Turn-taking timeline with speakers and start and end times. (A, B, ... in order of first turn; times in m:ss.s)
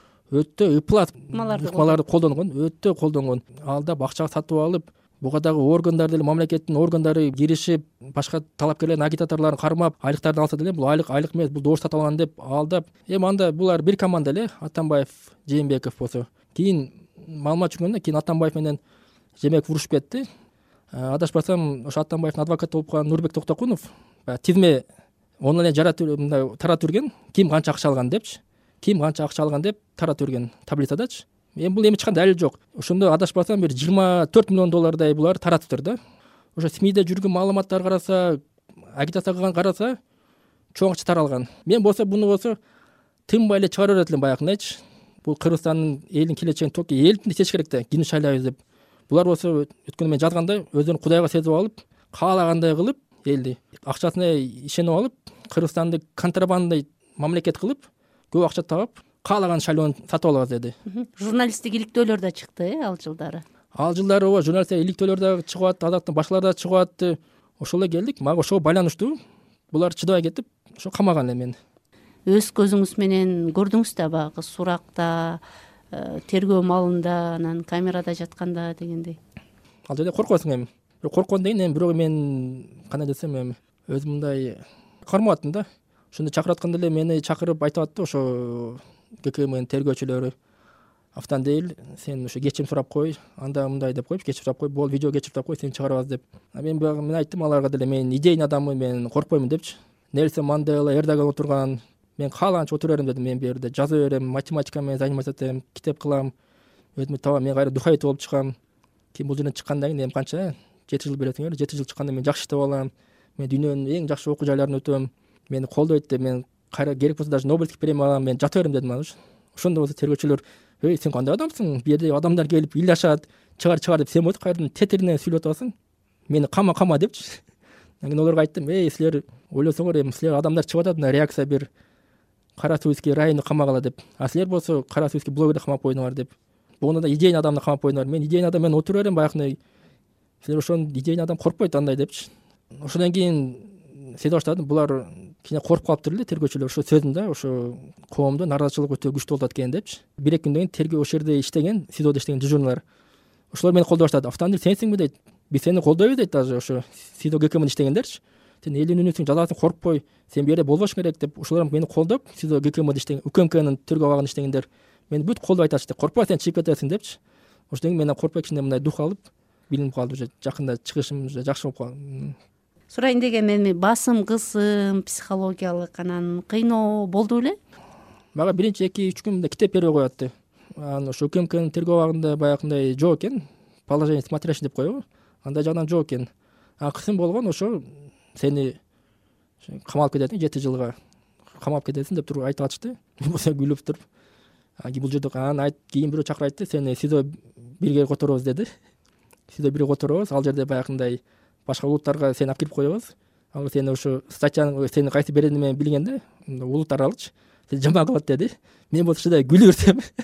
0:00.3-0:18.8 A
0:01.3-0:02.0 B
0:19.4-0:20.3 A
0:20.9-0:24.8 A
0:25.4-0:36.0 A
0:36.6-0:40.0 A
0:40.7-0:42.6 A
0:43.3-1:00.7 A
1:00.9-1:03.4 B
1:03.7-1:09.2 A
1:09.7-1:11.6 A
1:12.3-1:19.2 B
1:19.9-1:30.3 A
1:31.1-1:46.3 A
1:47.0-1:48.6 A
1:49.1-2:05.7 A
2:06.3-2:07.4 A
2:08.0-2:11.7 A
2:12.6-2:19.6 A
2:20.4-2:32.8 A
2:33.5-2:47.2 A
2:47.7-2:52.4 A
2:52.9-2:57.6 B
2:58.3-3:08.8 A
3:09.6-3:11.0 A
3:11.5-3:14.0 A
3:14.8-3:18.7 A
3:19.5-3:30.1 A